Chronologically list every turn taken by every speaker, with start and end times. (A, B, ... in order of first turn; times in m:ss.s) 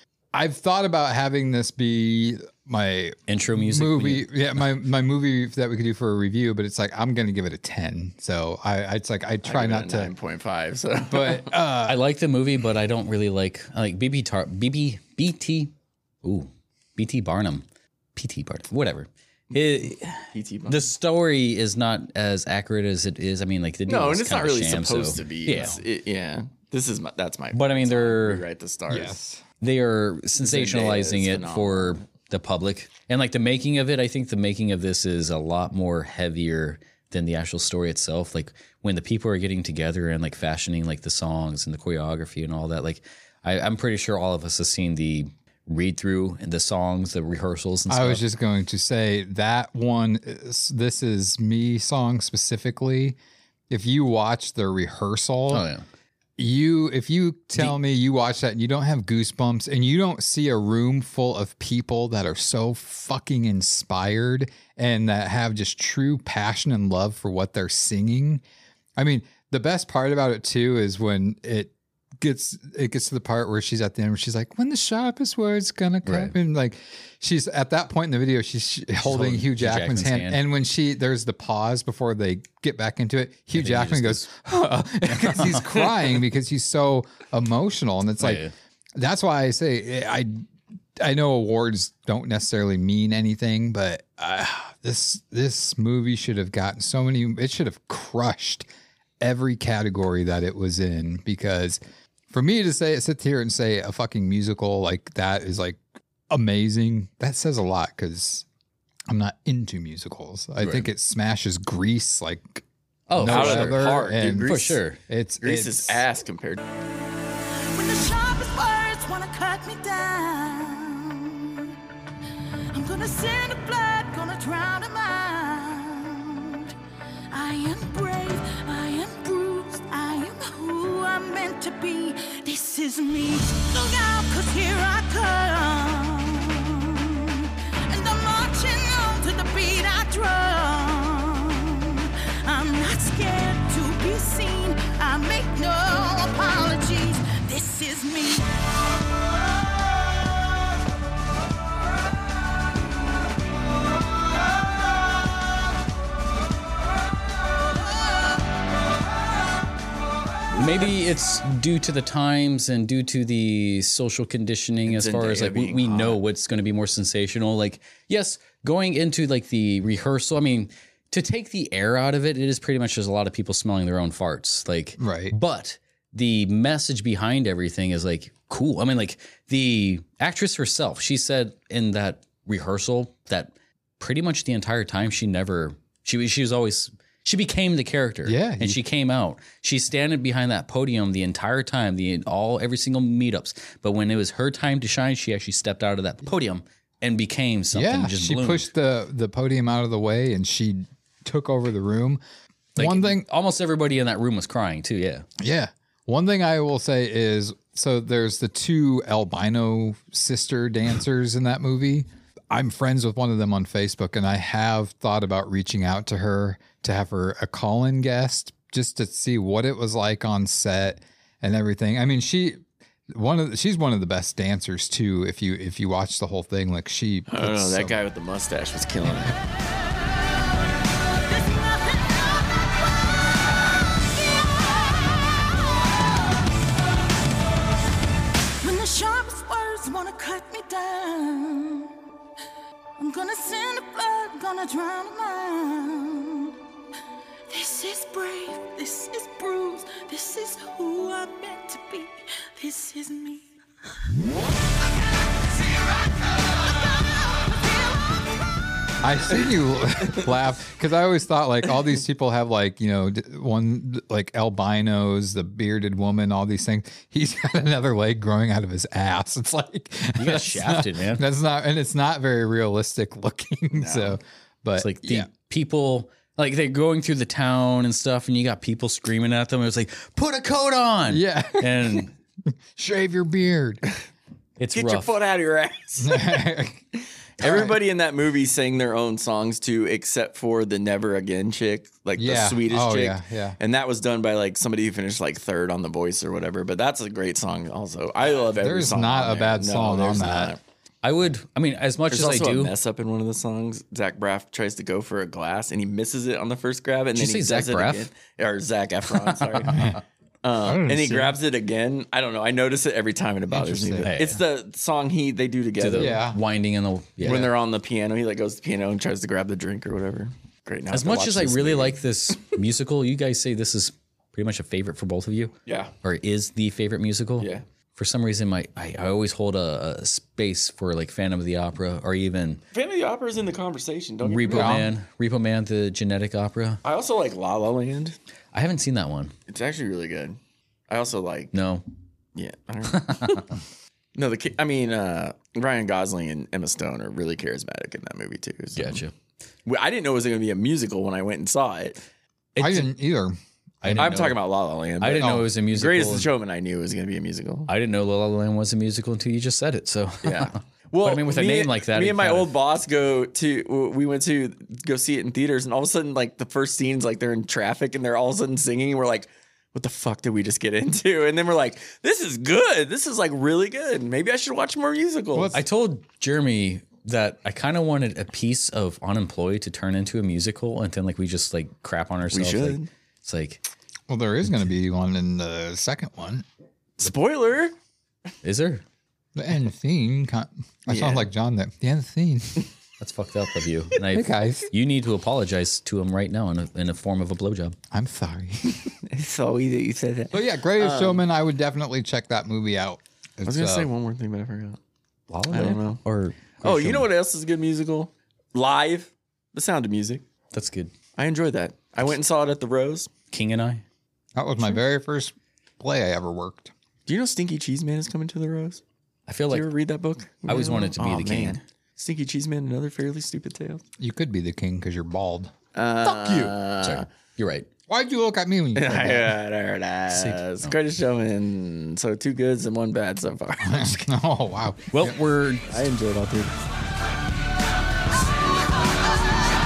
0:00.3-0:10.1 A
0:03.3-0:04.6 B
0:09.4-0:11.5 C
0:11.1-0:12.0 A
0:11.8-0:15.7 B
0:16.2-0:17.6 B
0:18.2-0:25.8 B
0:20.3-0:20.9 C
0:23.9-0:29.2 C
0:27.5-0:28.4 B
0:28.9-0:29.4 A
0:29.6-0:48.2 B
0:30.4-0:32.0 C
0:47.9-0:53.2 A
0:53.7-0:55.6 A
0:55.5-0:55.8 B
0:56.4-1:08.4 A
1:09.0-1:28.4 A
1:16.0-1:16.3 B
1:19.0-1:20.4 B
1:23.5-1:24.3 B
1:25.1-1:25.6 B
1:28.2-1:28.5 B
1:29.0-1:38.7 A
1:39.2-1:48.4 A
1:49.1-1:56.0 A
1:50.6-1:50.9 B
1:53.1-1:55.0 B
1:53.2-1:54.8 C
1:55.4-1:56.6 C
1:57.7-2:01.8 D
2:02.7-2:06.7 D
2:07.3-2:28.5 D
2:40.5-3:18.7 B
2:44.8-2:46.2 C
2:55.0-2:55.4 A
3:08.2-3:08.8 A
3:17.7-3:22.2 A
3:22.8-3:23.2 A
3:22.8-3:25.2 B
3:25.4-3:48.0 A
3:47.3-3:49.4 C
3:58.6-4:01.9 D
4:03.0-4:06.6 D
4:07.5-4:13.5 D
4:19.0-4:35.3 A
4:30.2-4:31.2 B
4:33.8-4:34.2 C
4:34.8-4:42.1 B
4:41.1-4:43.8 A
4:44.6-4:45.2 B
4:44.7-4:46.4 C
4:46.0-4:46.8 A
4:47.4-5:00.6 C
4:47.4-4:47.7 A
4:52.2-4:53.6 A
4:58.5-5:00.6 A
5:01.0-5:02.7 B
5:02.1-5:16.2 C
5:07.1-5:08.1 B
5:09.3-5:09.9 B
5:10.6-5:11.4 A
5:13.5-5:14.1 A
5:14.0-5:14.4 B
5:15.8-5:17.5 B
5:15.9-5:16.4 A
5:17.2-5:22.0 C
5:20.9-5:32.6 B
5:25.6-5:25.9 C
5:27.4-5:27.6 C
5:32.7-5:34.8 C
5:34.2-5:36.8 B
5:34.5-5:34.9 A
5:36.8-5:38.2 C
5:38.5-5:39.3 B
5:39.5-5:40.4 C
5:40.9-5:41.5 C
5:41.5-5:41.8 B
5:42.4-5:43.4 C
5:42.9-5:43.4 B
5:44.1-5:49.0 C
5:48.8-5:49.1 B
5:49.6-5:52.0 C
5:52.6-5:52.9 B
5:52.6-5:54.1 A
5:53.8-5:54.4 B
5:53.9-5:57.7 C
5:55.0-5:56.3 B
5:55.2-5:55.5 A
5:57.7-6:02.5 B
6:00.2-6:15.5 C
6:15.3-6:15.6 A
6:15.5-6:23.6 B
6:22.3-6:22.9 C
6:24.1-6:26.4 A
6:27.0-6:27.7 C
6:28.4-6:28.8 B
6:29.3-6:32.7 A
6:30.9-6:31.3 C
6:33.0-6:37.8 B
6:34.1-6:34.7 A
6:37.9-6:39.0 A
6:39.0-6:41.2 C
6:40.3-6:43.9 A
6:43.4-6:44.8 C
6:45.3-6:47.1 B
6:45.5-6:46.0 C
6:46.6-6:50.2 C
6:50.5-6:50.9 B
6:51.2-6:53.1 C
6:53.3-6:53.8 B
6:54.4-6:56.7 A
6:57.1-6:58.8 C
6:59.3-6:59.7 B
6:59.5-7:03.8 C
7:00.4-7:01.6 B
7:04.0-7:05.5 A
7:05.7-7:07.0 C
7:06.0-7:07.7 B
7:07.9-7:09.3 A
7:08.7-7:14.1 C
7:10.1-7:10.8 B
7:13.6-7:15.2 A
7:14.9-7:15.7 B
7:15.7-7:16.6 C